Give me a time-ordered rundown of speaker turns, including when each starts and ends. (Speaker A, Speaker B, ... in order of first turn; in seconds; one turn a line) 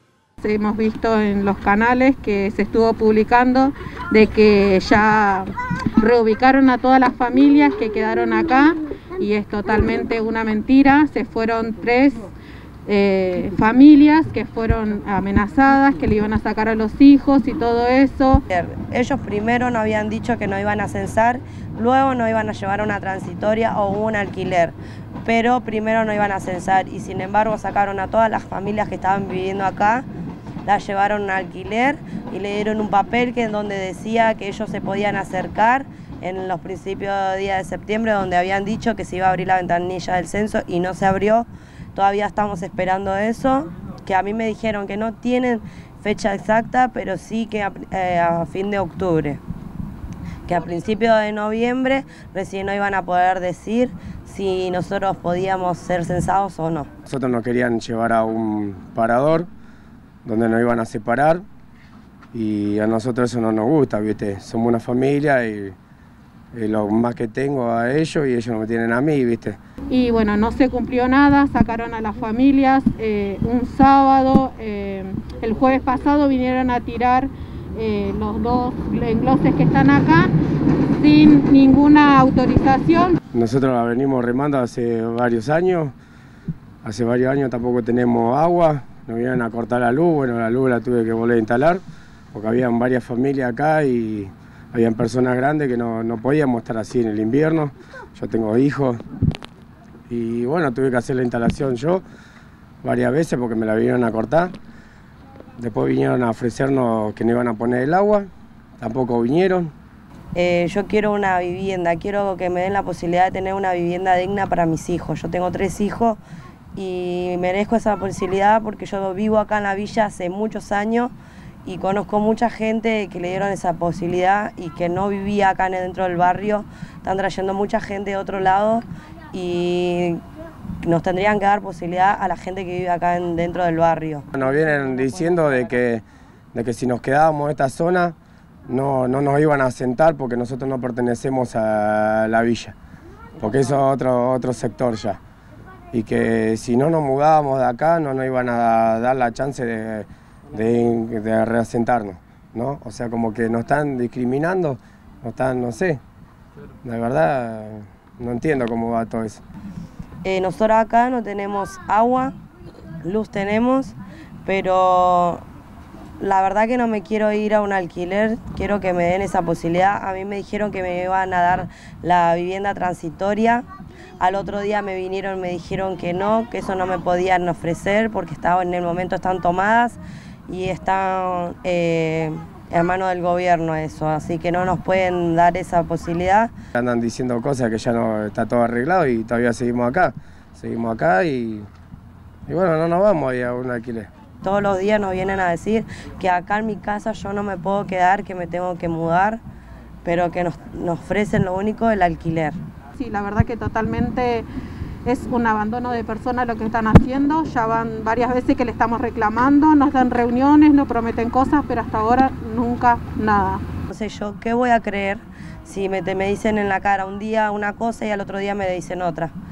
Speaker A: 0.4-12.3
Speaker A: 12.8-18.4
Speaker B: 18.5-30.1
Speaker B: 30.6-49.4
Speaker B: 50.5-56.9
Speaker C: 57.0-59.5
Speaker C: 60.2-61.4
Speaker C: 62.3-65.8
Speaker C: 66.5-69.6
Speaker A: 69.9-80.3
Speaker A: 80.9-83.2
Speaker C: 83.3-85.9
Speaker C: 86.8-91.8
Speaker C: 92.3-99.0
Speaker C: 100.1-102.0
Speaker C: 102.8-104.5
Speaker C: 105.6-108.3
Speaker C: 108.8-109.7
Speaker B: 110.3-116.2
Speaker B: 116.8-121.1
Speaker B: 121.6-130.2
Speaker B: 130.8-134.3
Speaker C: 134.3-138.2
Speaker C: 138.7-142.8
Speaker C: 143.4-145.2
Speaker C: 145.9-156.0
Speaker C: 156.8-159.4
Speaker B: 160.2-162.3
Speaker B: 163.0-165.4
Speaker B: 166.2-173.7
Speaker B: 174.2-186.5
Speaker C: 186.8-191.7
Speaker C: 192.5-194.1
Speaker B: 194.4-199.4
Speaker B: 200.0-202.6
Speaker A: 203.0-204.5
Speaker A: 205.0-213.6
Speaker B: 213.9-219.3